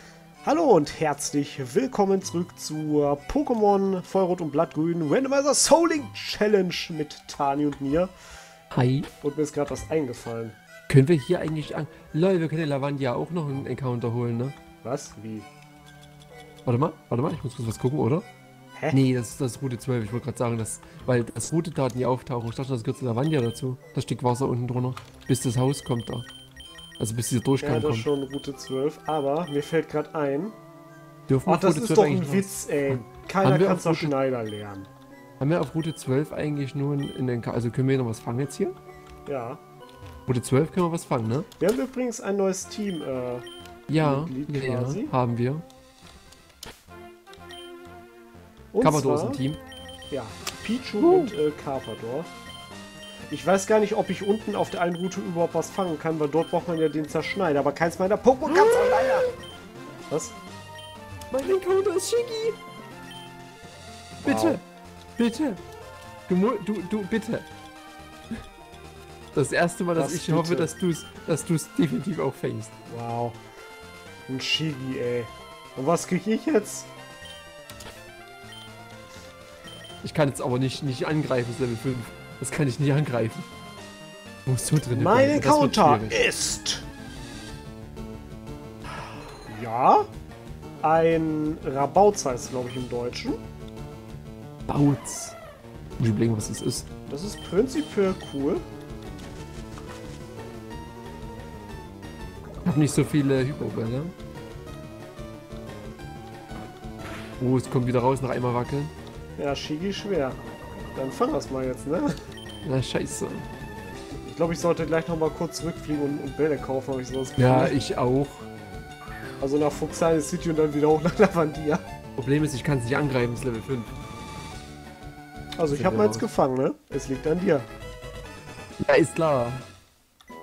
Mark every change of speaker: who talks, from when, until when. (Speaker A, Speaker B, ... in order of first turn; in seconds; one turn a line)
Speaker A: 0.4-8.1
Speaker B: 8.7-9.1
Speaker A: 9.2-10.6
Speaker B: 10.9-14.6
Speaker A: 14.8-15.5
Speaker B: 16.6-18.3
Speaker B: 18.9-26.3
Speaker B: 27.0-28.1
Speaker A: 27.6-30.6
Speaker B: 31.3-34.1
Speaker A: 31.5-34.9
Speaker B: 35.4-38.8
Speaker A: 39.3-39.6
Speaker B: 40.3-41.5
Speaker A: 41.6-45.1
Speaker B: 43.9-45.6
Speaker A: 48.7-49.4
Speaker B: 48.8-49.6
Speaker A: 50.1-52.3
Speaker B: 51.0-51.3
Speaker A: 53.3-59.3
Speaker B: 58.5-59.3
Speaker A: 60.1-60.4
Speaker B: 61.3-62.6
Speaker B: 64.2-64.6
Speaker A: 64.2-64.6
Speaker B: 65.2-65.6
Speaker B: 66.3-67.5
Speaker B: 69.3-72.7
Speaker A: 70.0-70.7
Speaker A: 72.9-73.4
Speaker A: 74.3-76.9
Speaker B: 80.0-83.5
Speaker B: 84.5-86.2
Speaker A: 84.9-86.9
Speaker A: 89.5-90.1
Speaker A: 90.8-93.4
Speaker B: 94.7-95.4
Speaker B: 96.0-96.9
Speaker A: 97.1-98.6
Speaker B: 102.6-104.1
Speaker B: 107.4-108.9
Speaker A: 109.4-110.4
Speaker A: 111.0-112.2
Speaker B: 112.6-113.5
Speaker A: 114.3-117.8
Speaker B: 117.4-118.5
Speaker A: 119.4-121.8
Speaker B: 122.2-124.0
Speaker A: 125.6-127.7
Speaker B: 125.7-126.3
Speaker B: 128.8-129.7